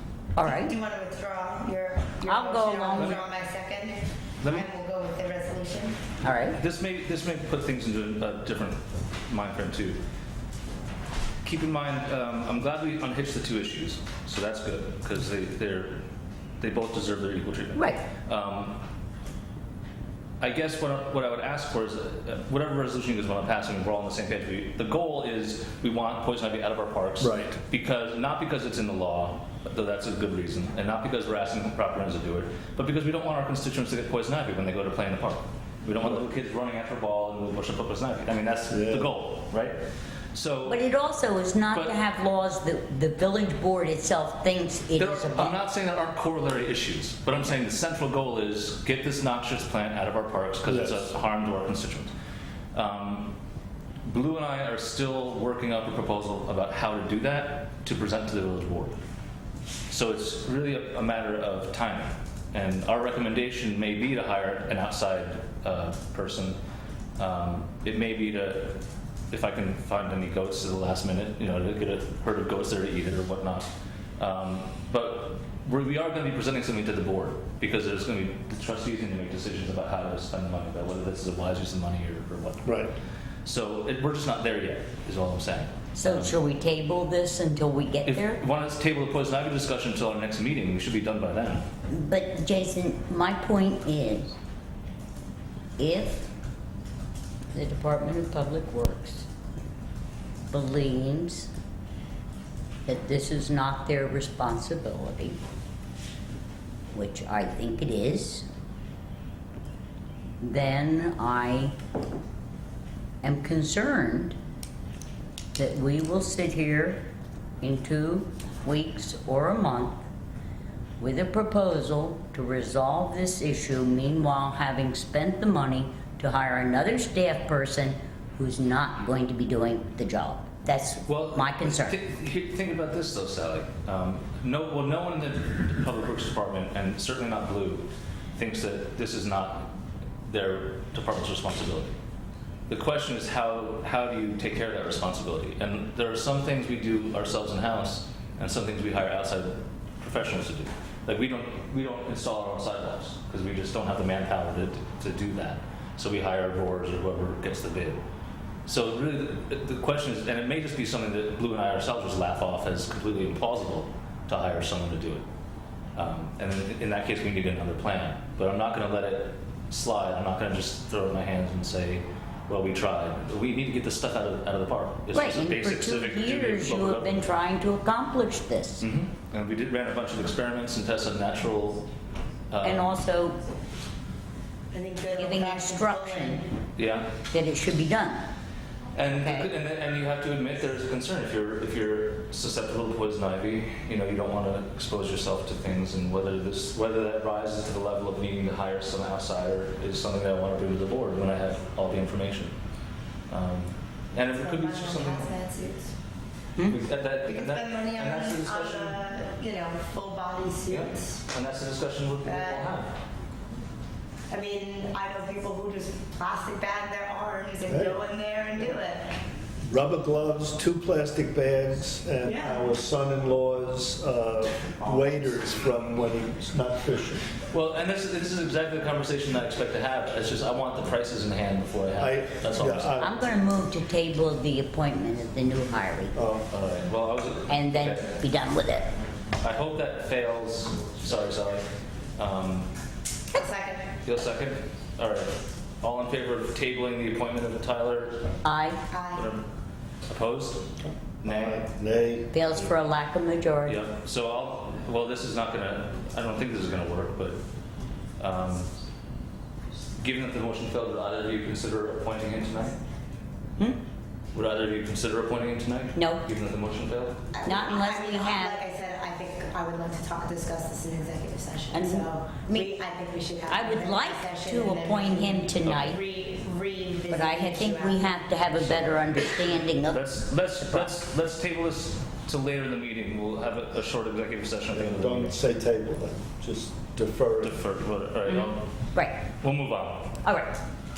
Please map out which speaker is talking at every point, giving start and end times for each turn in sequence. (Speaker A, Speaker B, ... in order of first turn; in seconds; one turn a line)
Speaker A: 0.4-0.7
Speaker B: 0.4-6.1
Speaker A: 2.2-3.1
Speaker C: 3.0-3.2
Speaker C: 4.4-4.7
Speaker A: 6.2-6.6
Speaker C: 6.5-10.0
Speaker C: 11.4-16.0
Speaker C: 16.6-18.8
Speaker A: 17.8-18.1
Speaker C: 20.4-39.8
Speaker D: 27.2-27.6
Speaker D: 38.7-39.1
Speaker C: 40.3-40.8
Speaker A: 40.7-45.6
Speaker C: 45.0-52.1
Speaker D: 50.7-51.0
Speaker C: 52.7-53.4
Speaker C: 54.0-59.0
Speaker C: 59.9-66.6
Speaker C: 67.2-82.8
Speaker D: 82.6-82.9
Speaker C: 83.4-86.4
Speaker A: 86.0-88.4
Speaker C: 88.0-91.7
Speaker A: 91.9-94.3
Speaker A: 95.8-96.3
Speaker A: 97.5-99.3
Speaker A: 100.5-101.5
Speaker A: 102.9-105.4
Speaker A: 106.9-108.5
Speaker A: 110.4-111.7
Speaker A: 113.2-114.3
Speaker A: 115.5-117.0
Speaker A: 117.6-120.0
Speaker A: 121.0-132.0
Speaker C: 131.1-139.7
Speaker C: 140.3-142.0
Speaker C: 142.7-158.0
Speaker C: 158.7-165.3
Speaker C: 165.9-177.3
Speaker A: 175.1-178.9
Speaker C: 178.8-181.9
Speaker C: 182.5-182.9
Speaker A: 182.6-183.4
Speaker B: 184.7-186.6
Speaker A: 185.1-186.5
Speaker C: 186.8-187.2
Speaker A: 187.2-188.3
Speaker C: 188.9-202.6
Speaker A: 189.1-189.5
Speaker C: 203.3-205.3
Speaker B: 204.3-205.9
Speaker C: 206.6-209.0
Speaker B: 207.2-211.2
Speaker C: 210.7-213.0
Speaker B: 212.2-212.8
Speaker B: 214.3-219.1
Speaker D: 217.7-218.0
Speaker D: 219.7-227.3
Speaker B: 222.2-222.6
Speaker C: 227.5-232.9
Speaker D: 232.0-233.1
Speaker A: 233.0-236.2
Speaker D: 236.1-236.5
Speaker C: 236.5-238.2
Speaker A: 237.5-238.9
Speaker C: 239.4-242.7
Speaker B: 243.3-244.0
Speaker C: 244.0-248.4
Speaker A: 248.4-248.8
Speaker B: 248.9-249.3
Speaker C: 249.1-249.5
Speaker C: 250.1-251.7
Speaker D: 250.8-252.3
Speaker A: 252.3-253.8
Speaker C: 253.7-257.4
Speaker C: 258.2-258.7
Speaker C: 260.0-262.8
Speaker A: 263.6-263.8
Speaker C: 264.3-267.3
Speaker A: 265.9-266.3
Speaker B: 267.3-278.4
Speaker A: 267.4-268.6
Speaker A: 271.7-272.8
Speaker A: 273.5-276.0
Speaker C: 275.6-275.9
Speaker A: 277.1-280.9
Speaker C: 279.5-285.4
Speaker D: 284.7-287.6
Speaker C: 287.4-290.2
Speaker A: 288.3-289.3
Speaker A: 290.2-290.6